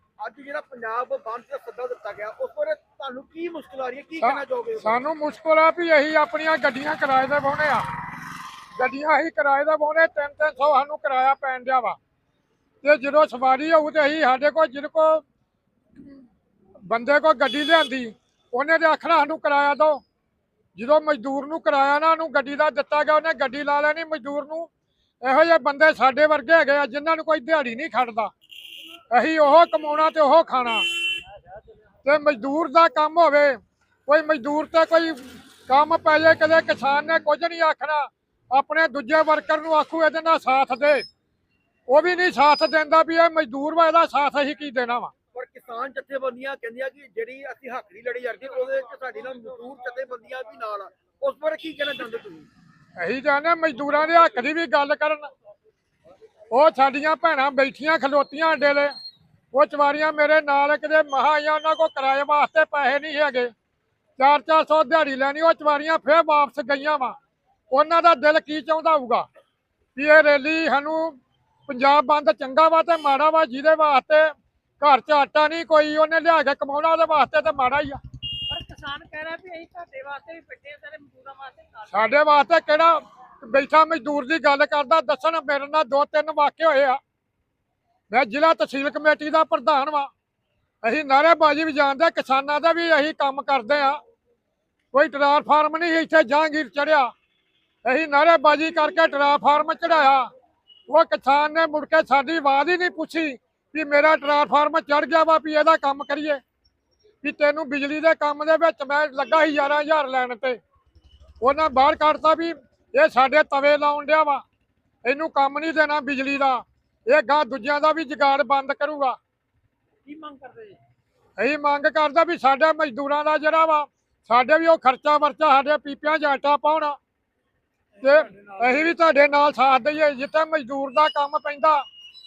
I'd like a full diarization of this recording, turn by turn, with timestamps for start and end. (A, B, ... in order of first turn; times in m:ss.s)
0:00.2-0:05.0 A
0:04.2-0:07.8 B
0:08.8-0:12.0 B
0:12.8-0:15.2 B
0:16.8-0:20.0 B
0:20.8-0:24.7 B
0:25.2-0:28.3 B
0:29.1-0:30.8 B
0:32.0-0:41.0 B
0:41.9-0:45.1 B
0:45.3-0:52.5 A
0:53.0-0:55.3 B
0:56.5-0:58.9 B
0:59.5-1:03.5 B
1:04.2-1:07.2 B
1:07.7-1:09.2 B
1:10.0-1:11.2 B
1:11.7-1:18.0 B
1:18.5-1:22.0 C
1:21.9-1:27.0 B
1:28.1-1:30.1 B
1:30.8-1:34.0 B
1:34.9-1:37.1 B
1:37.8-1:40.3 B
1:40.9-1:46.4 B
1:47.2-1:50.6 B
1:51.4-1:54.4 B
1:55.0-1:59.2 B
2:00.0-2:00.8 C
2:01.4-2:07.0 B
2:08.0-2:11.8 B
2:08.1-2:08.8 C